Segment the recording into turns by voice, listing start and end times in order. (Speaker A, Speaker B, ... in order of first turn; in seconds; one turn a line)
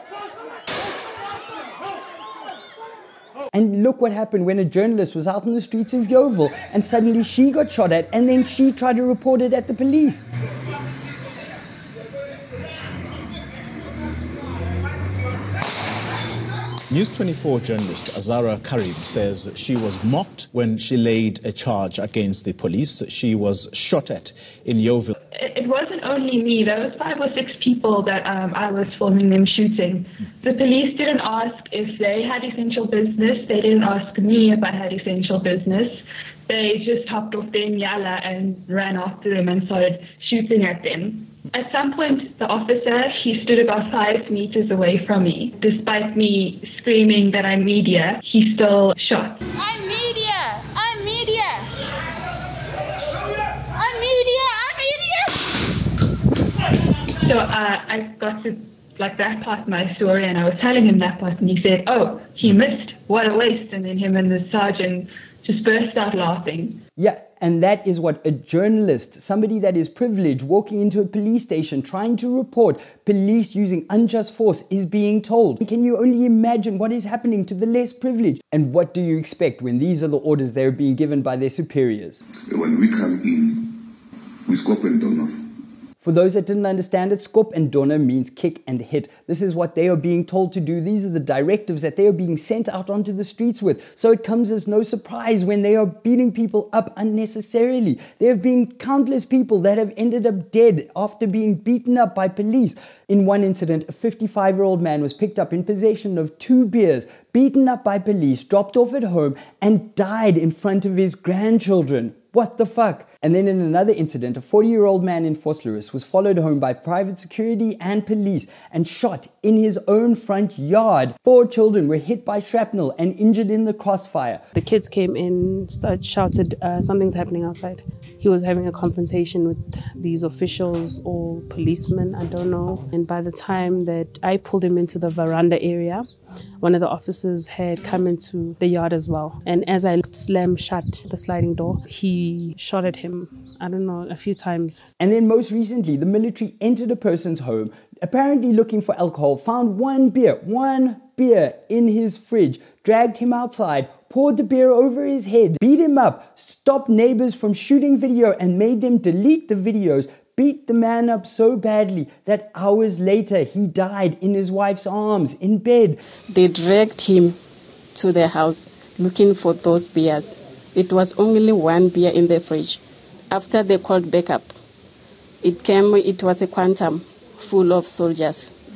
Speaker A: 3.5-10.3
Speaker B: 16.9-25.1
Speaker C: 25.4-49.4
Speaker D: 49.6-51.7
Speaker D: 53.7-55.5
Speaker C: 57.2-66.8
Speaker A: 67.0-82.2
Speaker E: 82.5-83.8
Speaker E: 84.5-85.4
Speaker A: 86.0-124.4
Speaker F: 124.5-136.1
Speaker F: 136.6-144.9
Speaker A: 145.0-166.0
Speaker G: 166.3-167.4
Speaker G: 167.9-172.8
Speaker G: 173.3-174.5
Speaker G: 175.4-178.5